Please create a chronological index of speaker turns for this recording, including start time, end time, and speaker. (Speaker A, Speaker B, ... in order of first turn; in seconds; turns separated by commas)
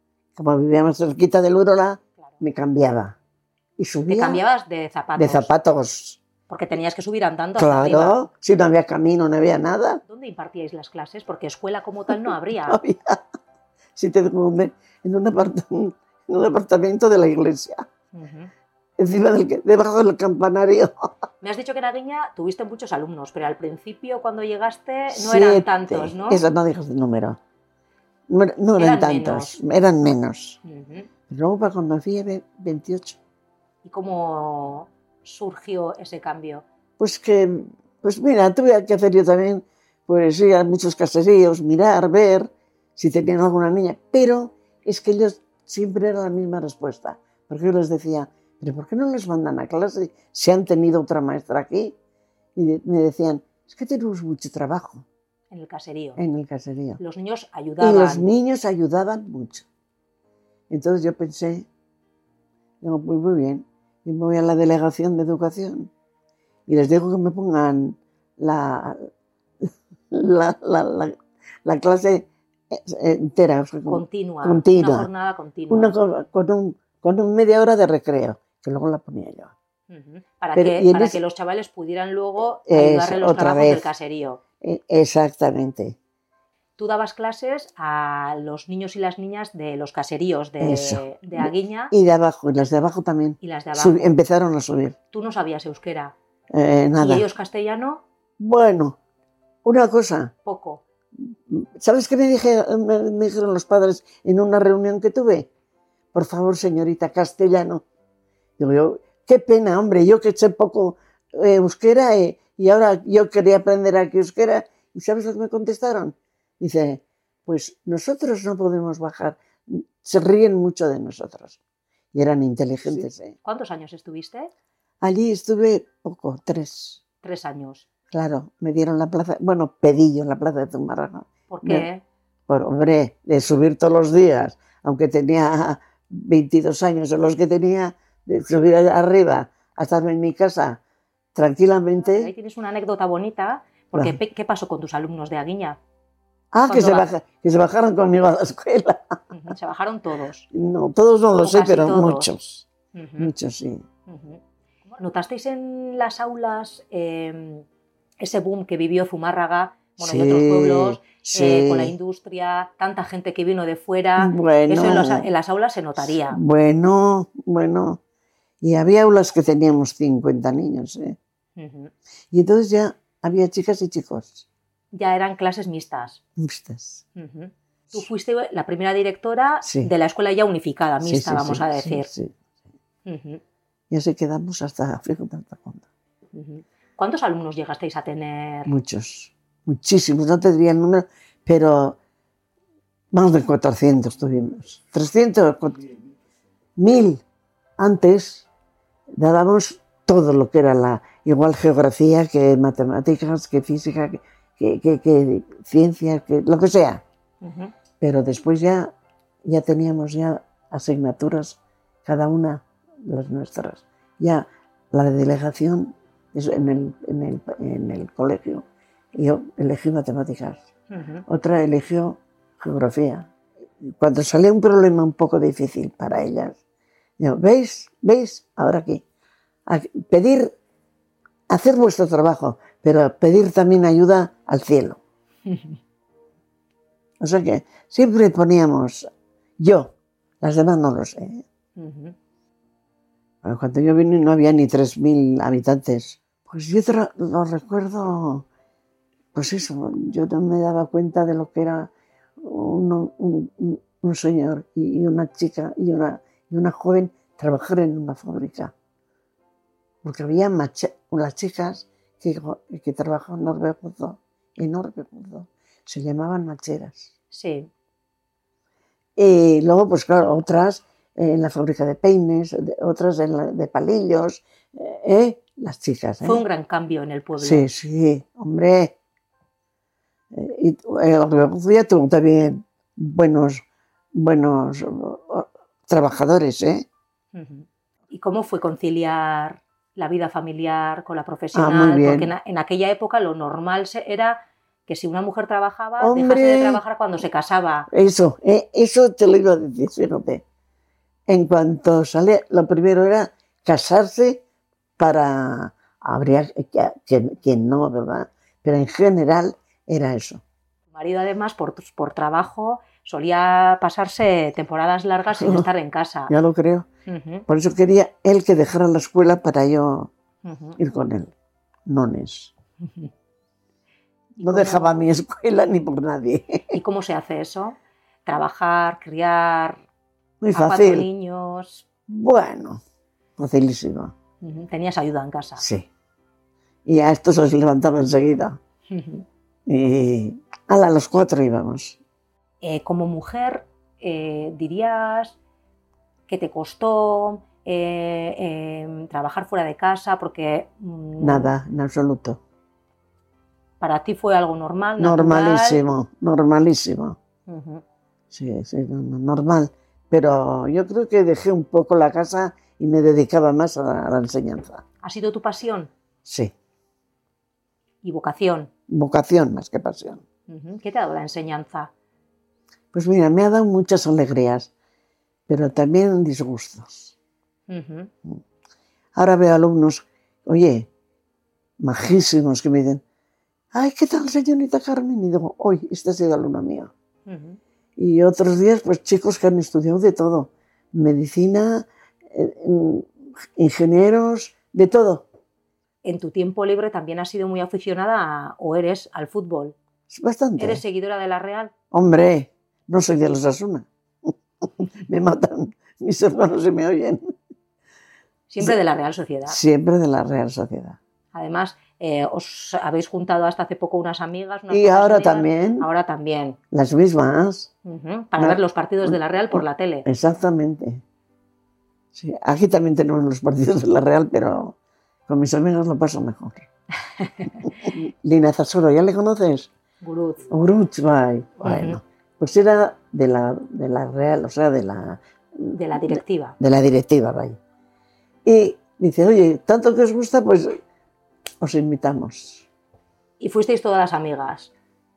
Speaker A: 0.3-3.2, Speaker A: 3.8-4.4, Speaker B: 4.1-5.5, Speaker A: 5.2-6.2, Speaker B: 6.5-8.2, Speaker A: 7.5-10.0, Speaker B: 10.1-12.8, Speaker A: 12.1-13.2, Speaker A: 13.9-17.8, Speaker B: 18.1-18.5, Speaker A: 19.0-21.1, Speaker B: 21.4-26.4, Speaker A: 25.1-27.4, Speaker A: 28.3-30.6, Speaker B: 28.8-29.6, Speaker B: 30.6-31.1, Speaker A: 31.3-33.2, Speaker B: 33.8-36.6, Speaker A: 37.0-52.0, Speaker A: 52.5-55.0, Speaker B: 55.5-56.2, Speaker A: 56.2-57.0, Speaker B: 57.0-58.3, Speaker A: 57.8-59.6, Speaker A: 60.7-61.7, Speaker A: 62.8-65.9, Speaker A: 66.7-69.1, Speaker A: 70.1-75.1, Speaker B: 73.9-76.0, Speaker A: 75.7-79.5, Speaker B: 79.9-84.4, Speaker A: 80.5-81.2, Speaker A: 82.7-83.9, Speaker A: 84.6-86.0, Speaker B: 86.8-91.9, Speaker A: 90.6-95.0, Speaker B: 93.4-94.1, Speaker B: 95.1-96.1, Speaker A: 96.5-97.3, Speaker B: 97.0-98.0, Speaker A: 98.4-99.0, Speaker A: 99.6-100.3, Speaker B: 100.4-100.8, Speaker A: 101.2-105.5, Speaker A: 106.1-107.8, Speaker A: 108.6-121.6, Speaker A: 122.1-123.3, Speaker B: 123.4-124.5, Speaker A: 125.0-127.0, Speaker B: 127.2-127.8, Speaker A: 128.1-131.9, Speaker B: 131.5-132.0, Speaker A: 132.5-140.8, Speaker A: 141.3-142.3, Speaker B: 142.0-145.8, Speaker A: 146.5-149.2, Speaker B: 146.7-147.1, Speaker B: 149.3-150.5, Speaker A: 150.5-153.8, Speaker B: 151.4-152.3, Speaker B: 152.9-153.3, Speaker B: 154.1-157.6, Speaker B: 158.2-166.4, Speaker A: 160.0-161.9, Speaker A: 164.2-165.3, Speaker A: 166.0-168.0, Speaker A: 168.6-171.2, Speaker B: 171.6-171.9, Speaker A: 172.3-174.4, Speaker B: 174.9-176.2, Speaker A: 176.4-177.0, Speaker B: 177.2-182.1, Speaker A: 179.6-179.9, Speaker A: 181.0-182.4, Speaker B: 183.0-183.4, Speaker A: 183.9-185.9, Speaker B: 186.3-188.7, Speaker A: 188.7-192.0, Speaker A: 193.1-195.9, Speaker A: 196.8-197.2, Speaker A: 197.8-198.5, Speaker A: 199.2-207.0, Speaker B: 207.4-207.7, Speaker A: 208.0-208.9, Speaker A: 209.4-220.7, Speaker B: 220.9-221.2, Speaker A: 221.3-223.3, Speaker A: 223.8-226.6, Speaker A: 227.2-229.0, Speaker A: 229.7-230.5, Speaker A: 231.5-235.0, Speaker B: 235.5-235.8, Speaker A: 237.2-241.4, Speaker B: 241.8-242.1, Speaker A: 243.4-248.4, Speaker A: 249.3-258.7, Speaker A: 260.0-267.1, Speaker B: 267.3-267.7, Speaker A: 269.1-276.4, Speaker B: 276.2-277.7, Speaker A: 277.4-278.9, Speaker A: 280.3-283.6, Speaker A: 284.1-286.9, Speaker B: 287.3-297.9, Speaker A: 291.5-292.3, Speaker A: 296.0-296.8, Speaker A: 297.9-300.4, Speaker A: 301.3-304.4, Speaker A: 305.0-310.4, Speaker B: 310.9-316.3, Speaker A: 315.3-315.7, Speaker A: 316.3-316.9, Speaker B: 317.1-317.4, Speaker A: 317.5-320.1, Speaker B: 320.4-320.8, Speaker A: 320.8-321.3, Speaker A: 321.9-322.5, Speaker B: 322.8-323.1, Speaker B: 324.4-325.0, Speaker A: 324.4-326.8, Speaker B: 326.7-329.8, Speaker A: 330.4-331.1, Speaker B: 330.5-331.8, Speaker A: 332.1-332.8, Speaker A: 333.4-334.1, Speaker B: 334.4-335.6, Speaker A: 335.6-335.9, Speaker A: 336.9-338.6, Speaker B: 338.9-339.2, Speaker A: 339.7-342.0, Speaker B: 342.6-345.4, Speaker B: 346.3-351.5, Speaker A: 351.2-352.4, Speaker B: 353.8-355.8, Speaker A: 355.0-357.2, Speaker B: 357.5-357.8, Speaker A: 358.3-364.8, Speaker B: 365.0-365.9, Speaker A: 366.2-366.5, Speaker B: 368.0-368.7, Speaker A: 368.9-370.2, Speaker B: 370.5-371.9, Speaker A: 372.9-374.7, Speaker A: 375.5-377.1, Speaker B: 377.7-378.1, Speaker A: 379.1-380.9, Speaker A: 381.8-383.0, Speaker A: 383.7-386.9, Speaker B: 387.2-387.6, Speaker A: 388.0-395.2, Speaker B: 396.0-399.7, Speaker A: 400.1-400.8, Speaker B: 400.6-401.7, Speaker A: 401.9-407.3, Speaker B: 408.5-409.6, Speaker A: 409.4-411.0, Speaker B: 411.3-416.6, Speaker A: 414.7-415.9, Speaker A: 416.7-417.7, Speaker B: 417.8-420.1, Speaker A: 418.4-421.0, Speaker A: 422.1-424.7, Speaker A: 425.3-426.6, Speaker B: 427.2-427.6, Speaker A: 427.6-429.7, Speaker B: 430.0-430.4, Speaker A: 430.5-437.6, Speaker B: 431.6-432.0, Speaker B: 435.7-436.6, Speaker A: 438.4-440.8, Speaker A: 441.6-442.7, Speaker B: 443.4-444.7